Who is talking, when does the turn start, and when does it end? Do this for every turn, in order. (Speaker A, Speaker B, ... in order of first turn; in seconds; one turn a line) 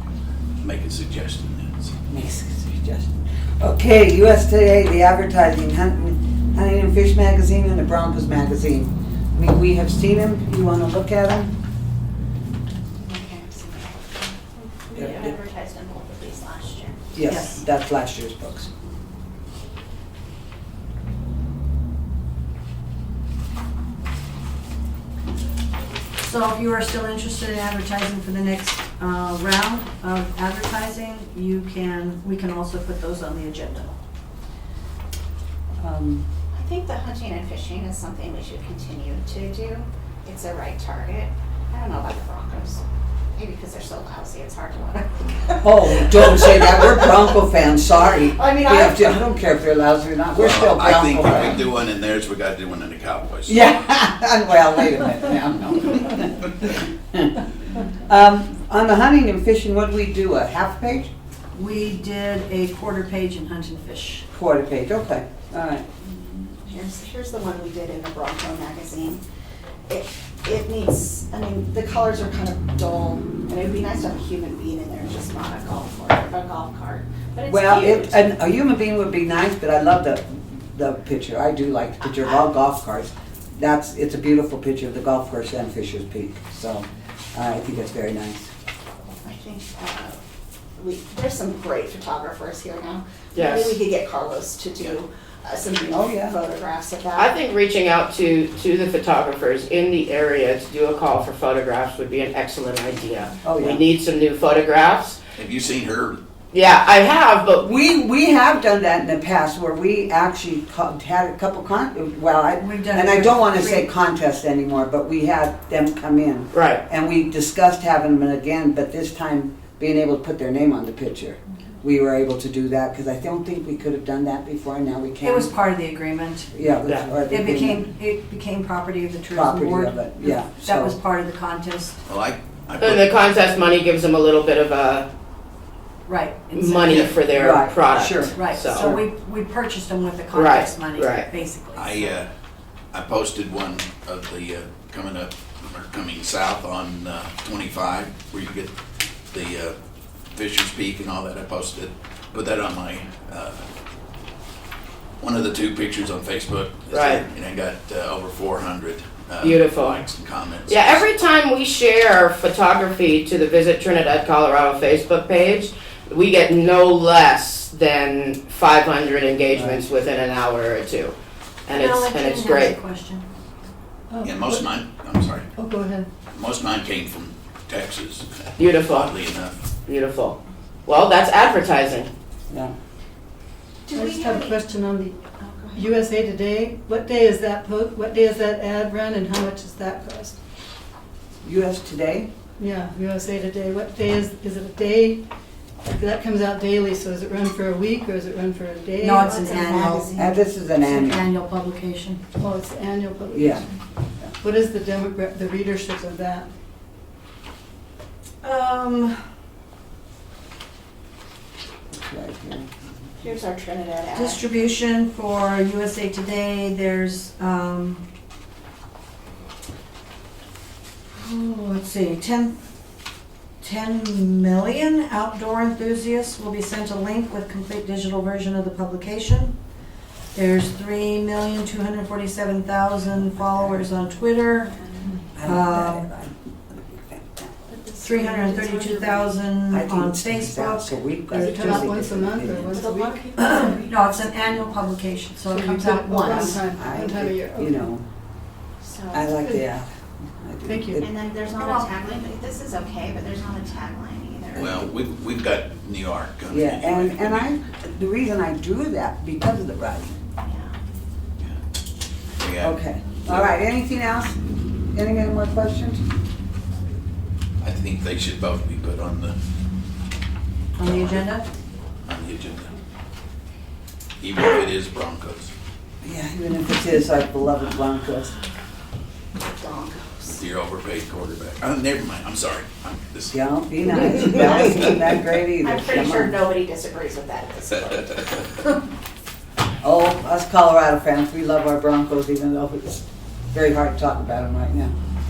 Speaker A: 0.6-1.9
Speaker B: 2.1-11.5
Speaker C: 13.0-17.0
Speaker B: 14.9-15.3
Speaker B: 17.1-18.7
Speaker D: 17.2-17.6
Speaker D: 26.2-33.9
Speaker B: 35.8-36.2
Speaker C: 36.5-42.8
Speaker C: 43.3-49.2
Speaker B: 45.6-51.6
Speaker A: 50.3-53.7
Speaker B: 53.5-57.4
Speaker B: 58.0-61.1
Speaker D: 61.5-64.2
Speaker B: 64.3-65.8
Speaker C: 66.0-69.2
Speaker C: 69.9-78.2
Speaker B: 77.5-88.5
Speaker C: 89.2-90.2
Speaker C: 90.8-97.3
Speaker E: 93.3-93.8
Speaker B: 95.9-96.4
Speaker E: 97.1-105.2
Speaker B: 103.4-103.8
Speaker A: 105.3-106.2
Speaker E: 106.5-107.7
Speaker B: 107.6-125.5
Speaker D: 112.6-113.9
Speaker E: 116.5-116.8
Speaker D: 125.2-126.5
Speaker B: 126.5-127.9
Speaker D: 127.3-132.0
Speaker B: 129.3-130.9
Speaker A: 132.1-133.2
Speaker E: 132.8-135.1
Speaker D: 136.1-137.2
Speaker E: 136.5-138.9
Speaker A: 136.9-137.2
Speaker B: 137.3-139.0
Speaker D: 138.3-142.1
Speaker E: 140.3-141.3
Speaker A: 141.8-142.3
Speaker A: 142.9-148.7
Speaker A: 149.3-149.8
Speaker A: 150.3-153.7
Speaker A: 155.2-161.1
Speaker E: 156.9-157.2
Speaker E: 159.4-160.0
Speaker E: 160.7-171.1
Speaker B: 169.5-169.8
Speaker E: 171.7-172.8
Speaker D: 171.7-173.2
Speaker F: 174.1-174.7
Speaker A: 174.2-175.5
Speaker F: 175.5-176.1
Speaker A: 176.3-179.5
Speaker E: 178.6-179.1
Speaker E: 179.9-182.1
Speaker C: 183.8-184.6
Speaker F: 183.9-185.2
Speaker C: 185.4-185.9
Speaker F: 185.7-190.3
Speaker B: 191.4-192.3
Speaker F: 192.6-195.2
Speaker F: 195.9-199.7
Speaker D: 199.0-200.2
Speaker C: 199.2-200.4
Speaker B: 200.1-201.3
Speaker D: 200.8-202.2
Speaker F: 202.4-203.7
Speaker B: 203.3-203.7
Speaker F: 204.4-206.5
Speaker D: 208.4-209.2
Speaker B: 211.9-212.9
Speaker C: 213.2-214.4
Speaker D: 214.1-218.0
Speaker D: 221.2-222.6
Speaker D: 223.6-229.5
Speaker D: 230.3-234.7
Speaker B: 233.3-233.9
Speaker C: 234.6-235.0
Speaker B: 235.3-237.5
Speaker D: 235.4-236.1
Speaker F: 237.9-239.1
Speaker D: 238.0-241.0
Speaker C: 238.5-239.2
Speaker B: 239.7-242.8
Speaker F: 241.3-243.4
Speaker C: 242.7-244.9
Speaker D: 243.3-246.6
Speaker F: 245.4-247.8
Speaker B: 246.2-248.0
Speaker C: 248.8-249.3
Speaker B: 249.1-251.1
Speaker F: 250.7-250.9
Speaker C: 250.9-254.8
Speaker D: 251.6-251.9
Speaker A: 254.5-257.5
Speaker B: 256.5-260.2
Speaker C: 260.4-260.8
Speaker A: 262.4-262.7
Speaker B: 262.6-264.4
Speaker A: 263.2-263.6
Speaker B: 264.9-266.0
Speaker A: 267.6-269.4
Speaker D: 270.8-271.4
Speaker A: 270.8-271.3
Speaker A: 272.0-272.7
Speaker A: 274.2-275.5
Speaker B: 276.0-278.4
Speaker C: 279.4-280.4
Speaker A: 280.3-283.3
Speaker B: 283.3-286.4
Speaker C: 285.6-288.6
Speaker B: 289.8-294.9